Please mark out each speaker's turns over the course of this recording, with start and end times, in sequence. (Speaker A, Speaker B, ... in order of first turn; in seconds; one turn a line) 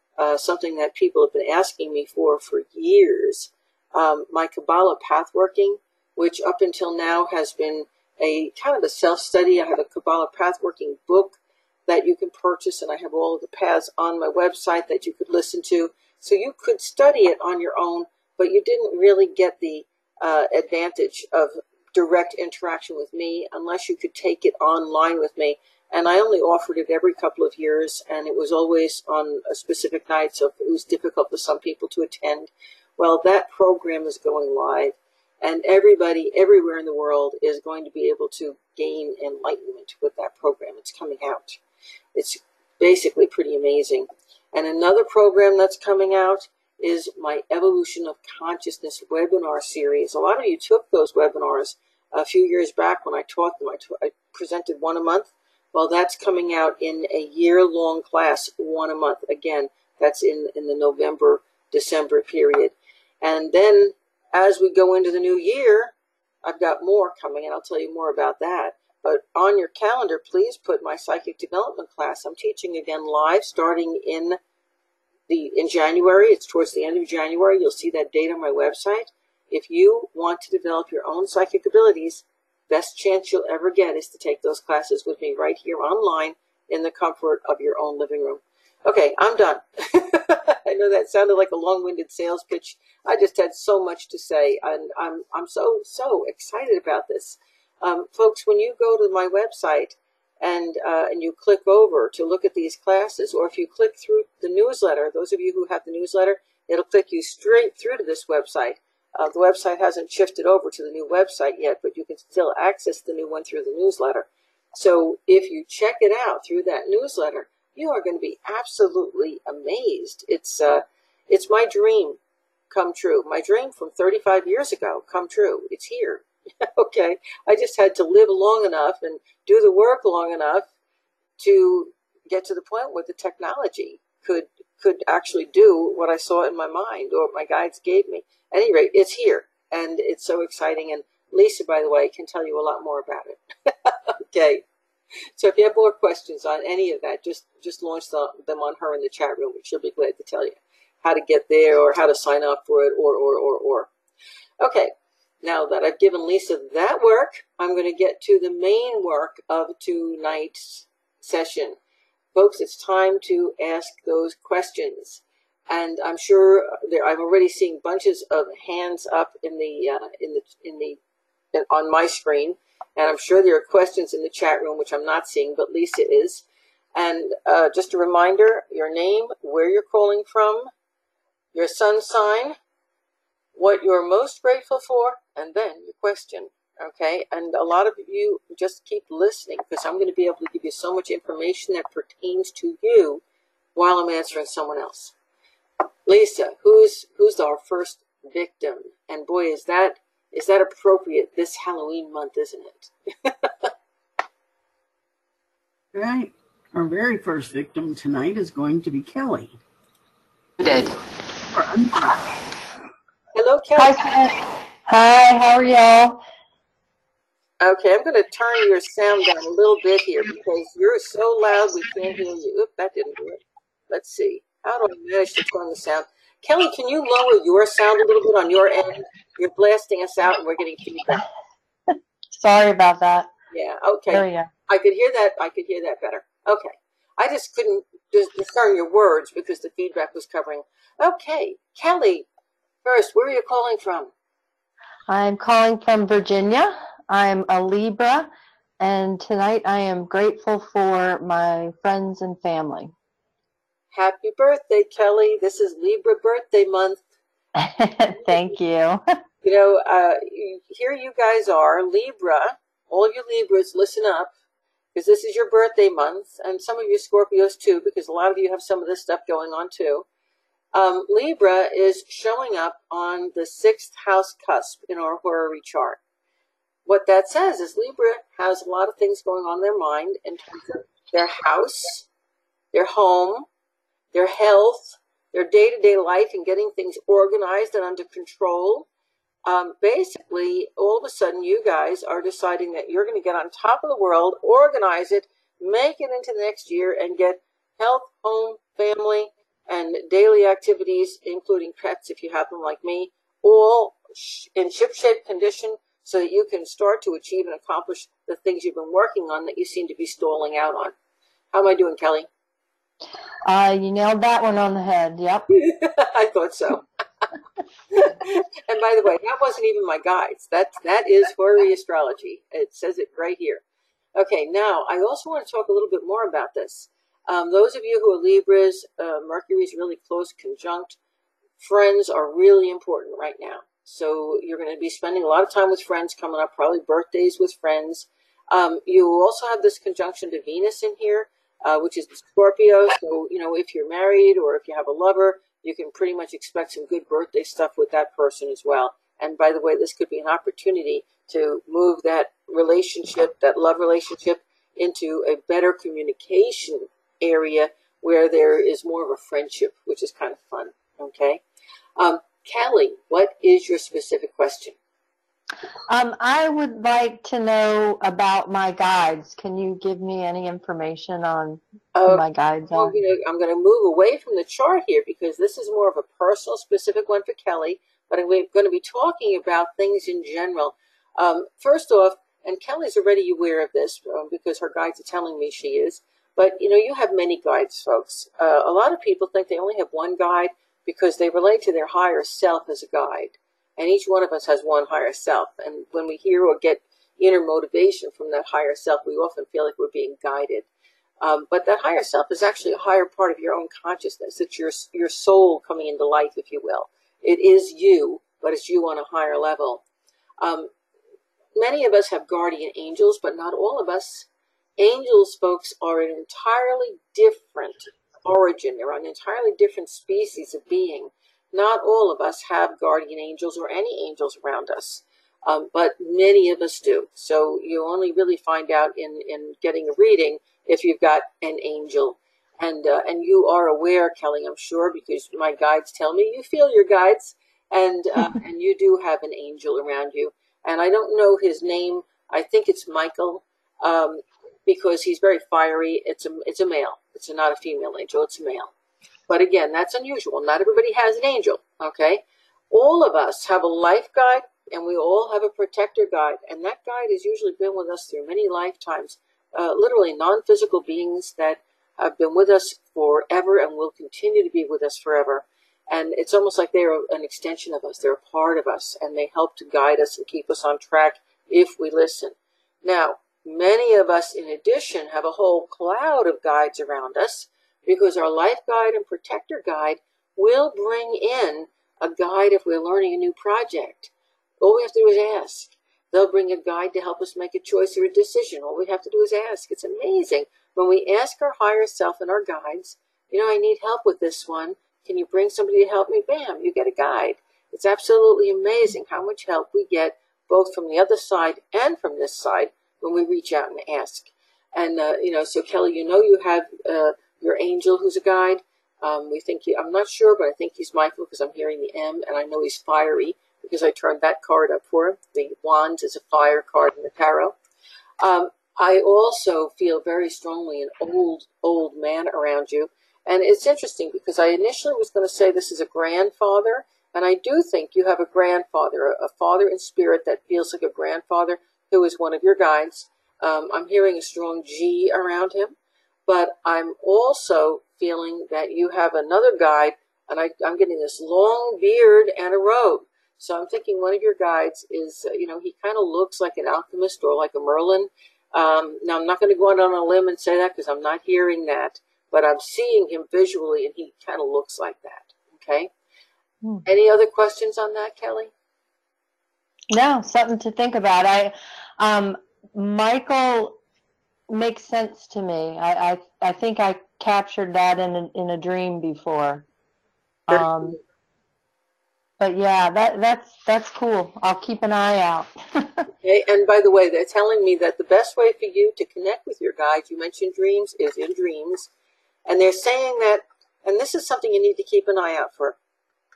Speaker A: 0.2-41.6
Speaker A: 42.1-65.9
Speaker A: 66.4-74.4
Speaker A: 75.3-122.2
Speaker A: 122.7-130.7
Speaker A: 131.4-144.6
Speaker A: 145.4-153.9
Speaker A: 154.6-154.9
Speaker A: 155.4-161.8
Speaker A: 162.3-171.0
Speaker A: 171.5-176.4
Speaker A: 176.9-180.7
Speaker A: 181.5-182.6
Speaker A: 183.6-193.2
Speaker A: 193.8-195.1
Speaker A: 196.1-203.7
Speaker B: 205.9-209.6
Speaker B: 211.5-212.3
Speaker A: 213.3-214.1
Speaker C: 213.8-216.2
Speaker A: 217.6-231.2
Speaker C: 232.3-233.3
Speaker A: 233.5-242.3
Speaker C: 234.1-234.5
Speaker A: 242.8-244.1
Speaker C: 245.1-252.9
Speaker A: 253.9-257.0
Speaker C: 257.6-259.0
Speaker A: 259.4-264.3
Speaker A: 264.9-270.1
Speaker A: 270.7-276.0
Speaker A: 276.9-282.1
Speaker A: 282.7-283.5
Speaker A: 284.1-288.9
Speaker A: 289.5-310.9
Speaker A: 311.5-312.3
Speaker C: 313.4-315.5
Speaker A: 315.5-316.8
Speaker A: 317.9-323.6
Speaker A: 324.1-331.0
Speaker A: 331.6-361.4
Speaker A: 362.0-364.8
Speaker C: 365.9-373.0
Speaker A: 371.9-400.7
Speaker A: 401.2-409.8
Speaker A: 410.4-410.7
Speaker A: 411.6-414.3
Speaker A: 414.8-448.7
Speaker A: 449.3-517.5
Speaker A: 518.2-535.8
Speaker A: 536.3-555.9
Speaker A: 556.9-558.5
Speaker C: 559.9-563.8
Speaker C: 564.5-569.6
Speaker C: 570.5-571.0
Speaker A: 570.5-571.0
Speaker C: 572.4-576.1
Speaker A: 576.2-581.9
Speaker A: 582.5-585.8